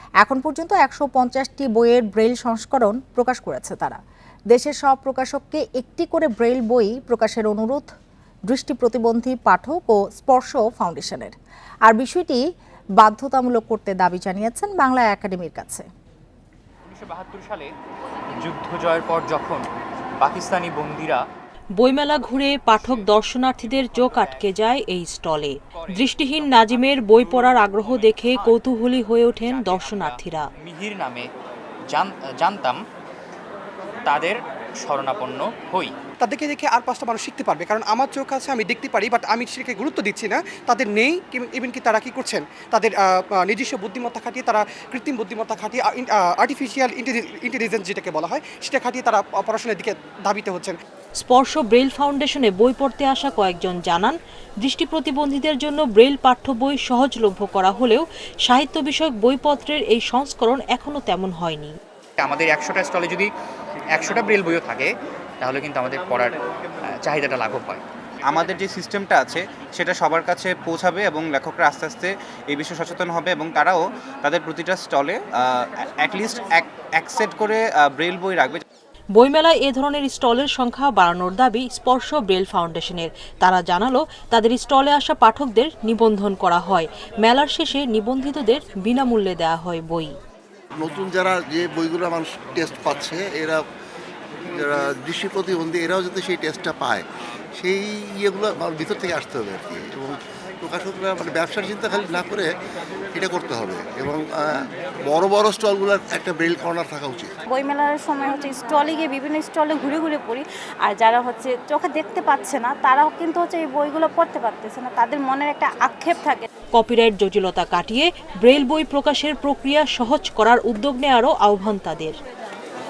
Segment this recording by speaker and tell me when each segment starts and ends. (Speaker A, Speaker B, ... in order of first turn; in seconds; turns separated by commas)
Speaker A: 0.2-4.0, Speaker A: 4.5-7.9, Speaker A: 8.5-11.3, Speaker A: 11.9-12.4, Speaker A: 13.0-15.9, Speaker B: 16.9-17.7, Speaker B: 18.4-19.7, Speaker B: 20.2-21.2, Speaker C: 21.8-30.5, Speaker B: 22.7-23.1, Speaker B: 23.6-24.6, Speaker B: 25.7-28.6, Speaker B: 29.4-31.3, Speaker B: 31.9-32.8, Speaker B: 34.1-35.9, Speaker D: 36.2-50.8, Speaker C: 51.2-61.8, Speaker B: 62.2-63.3, Speaker B: 63.9-66.3, Speaker B: 66.9-67.8, Speaker E: 68.3-78.6, Speaker C: 79.2-90.2, Speaker F: 90.8-93.6, Speaker F: 94.5-102.5, Speaker F: 103.1-107.3, Speaker G: 107.5-116.5, Speaker C: 116.7-122.2